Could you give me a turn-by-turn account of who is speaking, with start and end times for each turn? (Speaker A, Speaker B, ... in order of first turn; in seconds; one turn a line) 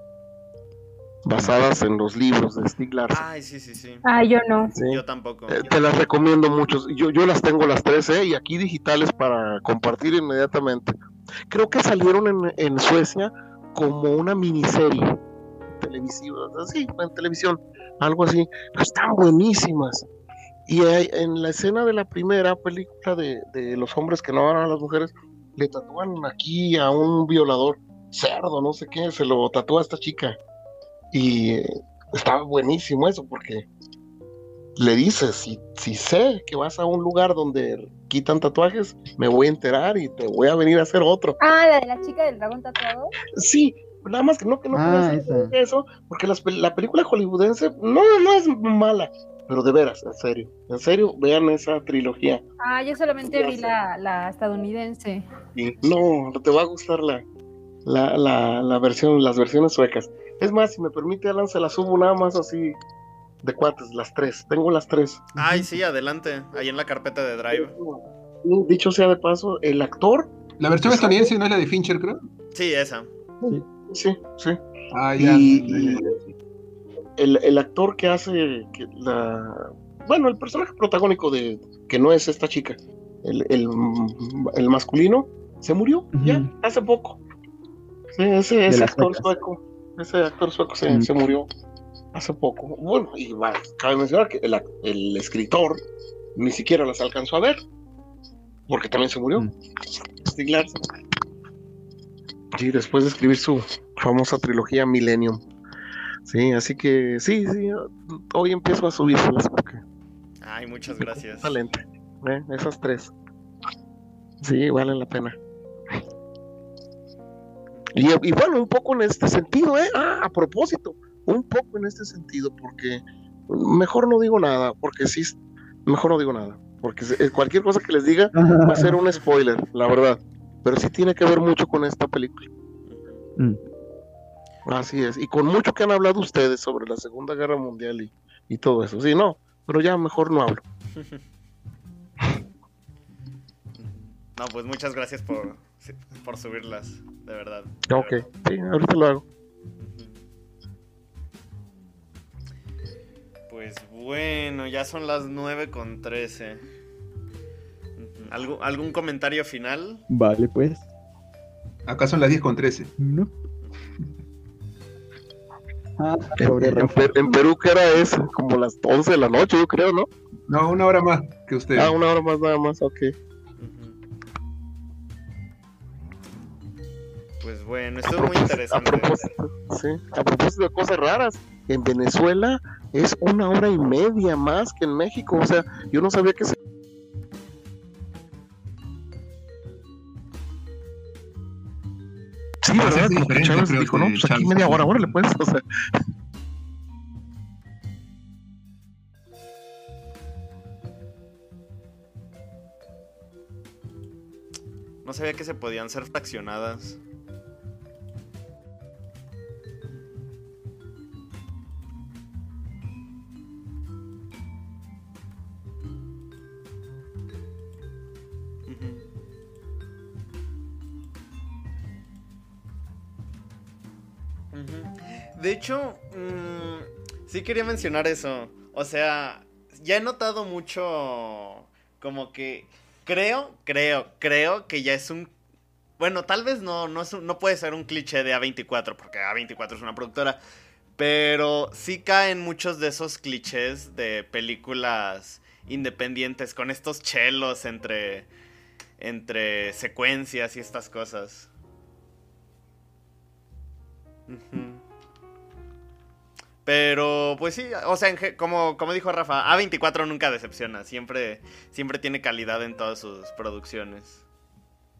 Speaker A: 1.2-3.3
Speaker B: 3.1-4.0
Speaker C: 4.0-4.7
Speaker A: 4.8-10.9
Speaker B: 4.8-6.0
Speaker A: 11.5-15.2
Speaker A: 15.8-20.1
Speaker A: 20.7-30.4
Speaker A: 31.1-33.7
Speaker A: 34.8-41.4
Speaker C: 41.4-43.1
Speaker A: 43.4-52.4
Speaker D: 44.7-45.5
Speaker C: 52.6-55.2
Speaker A: 53.3-53.7
Speaker A: 55.5-57.2
Speaker A: 57.9-62.8
Speaker A: 63.4-65.3
Speaker B: 65.4-67.8
Speaker D: 65.4-65.7
Speaker A: 67.5-70.3
Speaker E: 70.6-72.2
Speaker A: 70.8-71.3
Speaker B: 72.5-73.1
Speaker A: 73.9-74.6
Speaker E: 74.9-76.2
Speaker D: 75.2-75.9
Speaker A: 75.4-76.0
Speaker A: 77.2-87.2
Speaker D: 86.2-86.5
Speaker A: 88.1-91.5
Speaker D: 88.7-89.3
Speaker A: 92.1-95.8
Speaker A: 96.4-97.6
Speaker A: 98.7-99.5
Speaker A: 100.3-100.8
Speaker A: 102.6-105.4
Speaker A: 106.3-109.8
Speaker B: 110.4-111.6
Speaker A: 111.0-113.1
Speaker A: 114.4-115.4
Speaker A: 118.0-132.5
Speaker D: 128.3-129.0
Speaker B: 132.9-133.2
Speaker A: 134.7-140.6
Speaker B: 143.8-148.2
Speaker A: 147.9-149.2
Speaker B: 149.8-150.2
Speaker B: 153.5-156.6
Speaker B: 158.0-160.0
Speaker D: 160.1-160.9
Speaker E: 161.9-162.9
Speaker D: 163.0-163.3
Speaker D: 166.0-167.2
Speaker A: 166.4-170.1
Speaker E: 170.5-172.0
Speaker A: 171.8-173.1
Speaker B: 173.6-174.0
Speaker B: 177.4-179.2
Speaker A: 178.2-186.6
Speaker A: 192.6-195.6
Speaker E: 192.8-195.2
Speaker B: 205.0-207.0
Speaker B: 218.7-219.1
Speaker B: 224.5-235.3
Speaker B: 236.0-240.4
Speaker B: 241.0-248.3
Speaker B: 249.0-251.5
Speaker B: 254.3-254.8
Speaker B: 256.6-264.2